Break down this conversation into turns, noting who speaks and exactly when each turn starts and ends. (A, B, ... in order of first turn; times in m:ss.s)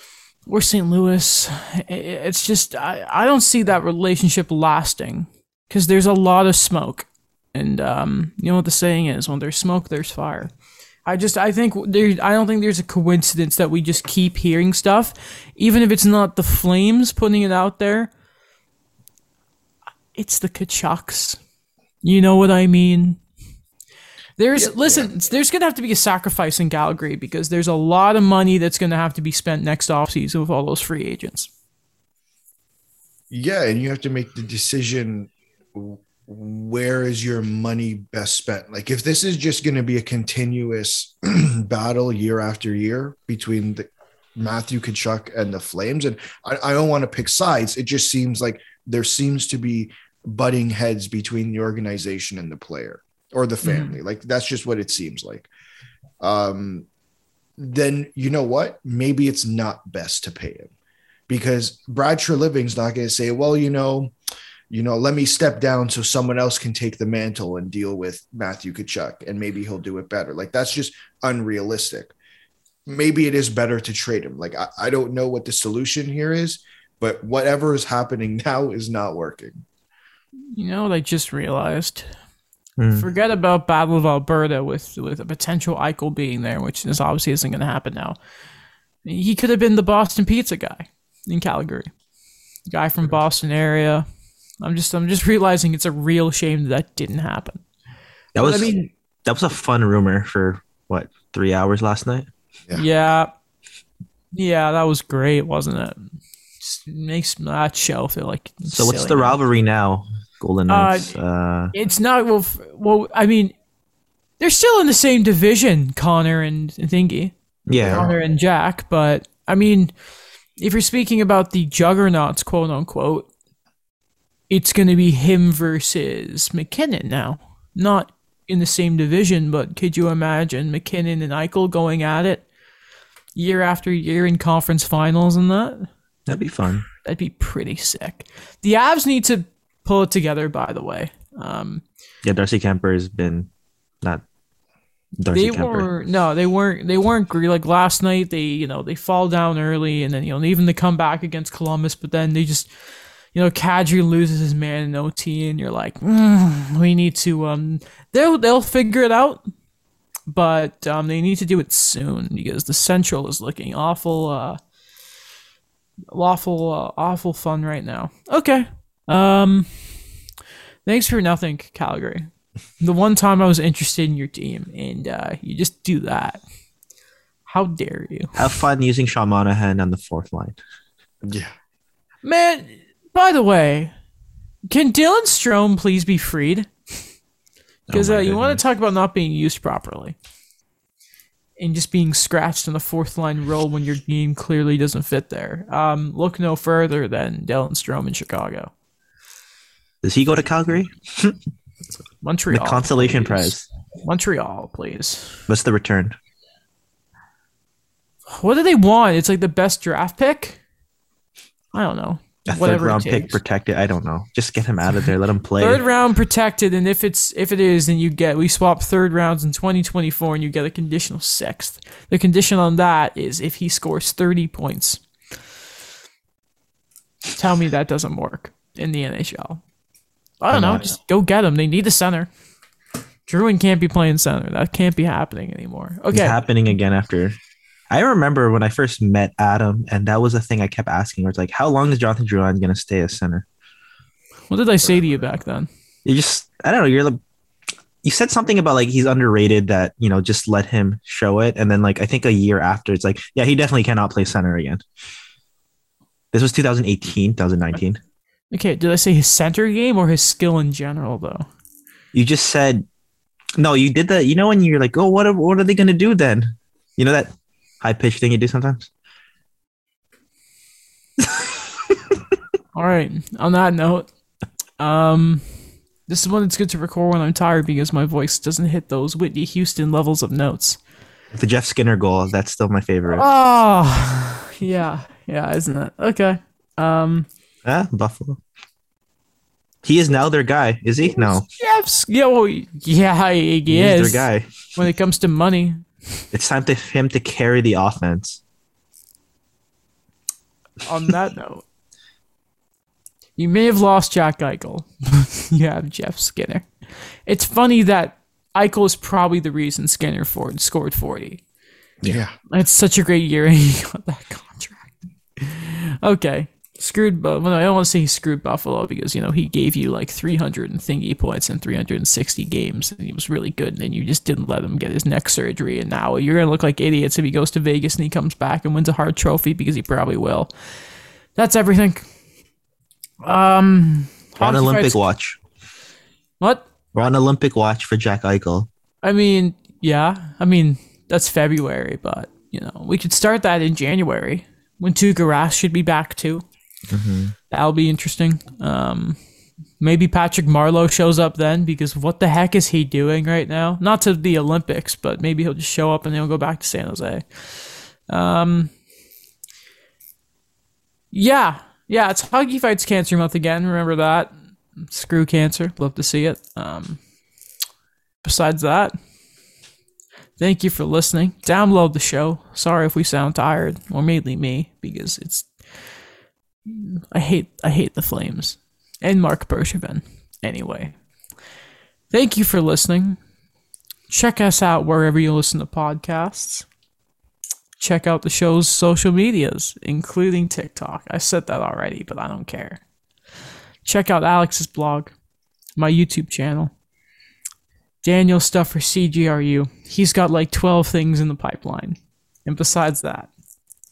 0:00.5-0:10.5 A
0:11.0-0:18.1 A
0:20.2-0:21.4 A
0:22.0-0:23.2 A
0:24.4-0:31.5 A
0:24.6-0:25.1 B
0:33.3-0:55.5 B
0:53.6-0:54.0 A
0:56.2-0:56.9 B
0:57.6-1:00.7 B
1:01.3-1:04.1 B
1:04.7-1:12.1 B
1:12.9-1:19.6 B
1:20.5-1:22.1 A
1:22.8-1:23.1 C
1:22.9-1:28.2 A
1:29.0-1:31.9 A
1:32.7-1:34.1 A
1:34.6-1:37.6 A
1:38.4-1:38.7 C
1:38.4-1:38.9 A
1:39.2-1:42.3 C
1:42.7-1:43.3 A
1:44.3-1:49.4 A
1:48.7-1:51.7 C
1:50.7-1:51.1 A
1:51.7-1:53.5 A
1:54.4-1:57.4 A
1:57.7-1:58.1 C
1:57.8-1:58.1 B
1:57.9-1:59.9 A
2:00.6-2:03.3 A
2:04.5-2:12.4 A
2:13.4-2:15.9 A
2:16.3-2:16.9 C
2:16.9-2:21.8 A
2:22.2-2:23.5 C
2:25.2-2:25.9 C
2:25.3-2:32.7 A
2:33.3-2:39.4 A
2:40.3-2:44.6 A
2:46.1-2:50.0 A
2:50.9-2:52.3 A
2:52.8-2:56.4 A
2:57.5-2:58.7 A
2:58.4-3:00.6 C
3:01.2-3:01.5 B
3:02.2-3:03.9 A
3:04.7-3:07.0 A
3:07.9-3:08.6 C
3:07.9-3:10.2 A
3:11.6-3:18.7 A
3:20.0-3:21.4 C
3:22.2-3:25.4 A
3:22.5-3:23.7 C
3:25.5-3:26.2 C
3:28.3-3:30.6 A
3:31.7-3:33.4 A
3:32.5-3:35.8 C
3:35.6-3:45.0 A
3:47.4-3:49.6 A
3:50.4-3:52.3 A
3:50.5-3:50.9 C
3:53.3-3:56.4 A
3:56.1-3:57.4 C
3:57.9-4:03.4 C
4:04.5-4:05.7 A
4:04.8-4:05.4 B
4:06.0-4:07.2 C
4:08.0-4:14.8 C
4:16.3-4:18.0 C
4:18.5-4:21.5 A
4:22.1-4:22.9 C
4:23.6-4:28.9 C
4:31.2-4:31.5 C
4:32.7-4:34.1 A
4:34.8-4:40.8 A
4:41.3-4:43.2 C
4:43.1-4:47.3 A
4:47.6-4:48.4 C
4:49.8-4:51.4 C
4:51.0-4:56.2 A
4:53.7-4:54.8 C
4:56.3-4:58.4 C
5:00.8-5:01.6 A
5:03.4-5:06.7 A
5:07.3-5:11.4 A
5:12.1-5:12.4 B
5:12.5-5:30.5 A
5:31.4-5:32.1 A
5:33.2-5:35.0 A
5:34.4-5:35.4 C
5:36.4-5:36.7 A
5:37.0-5:38.7 C
5:39.0-5:46.4 A
5:46.9-5:47.4 C
5:47.5-5:49.2 A
5:49.8-5:58.7 A
6:01.1-6:07.0 A
6:08.2-6:09.0 A
6:10.4-6:15.6 A
6:16.7-6:21.0 A
6:22.1-6:23.2 A
6:24.1-6:26.7 A
6:27.8-6:32.8 A
6:33.8-6:35.1 A
6:35.8-6:36.7 A
6:38.0-6:43.3 A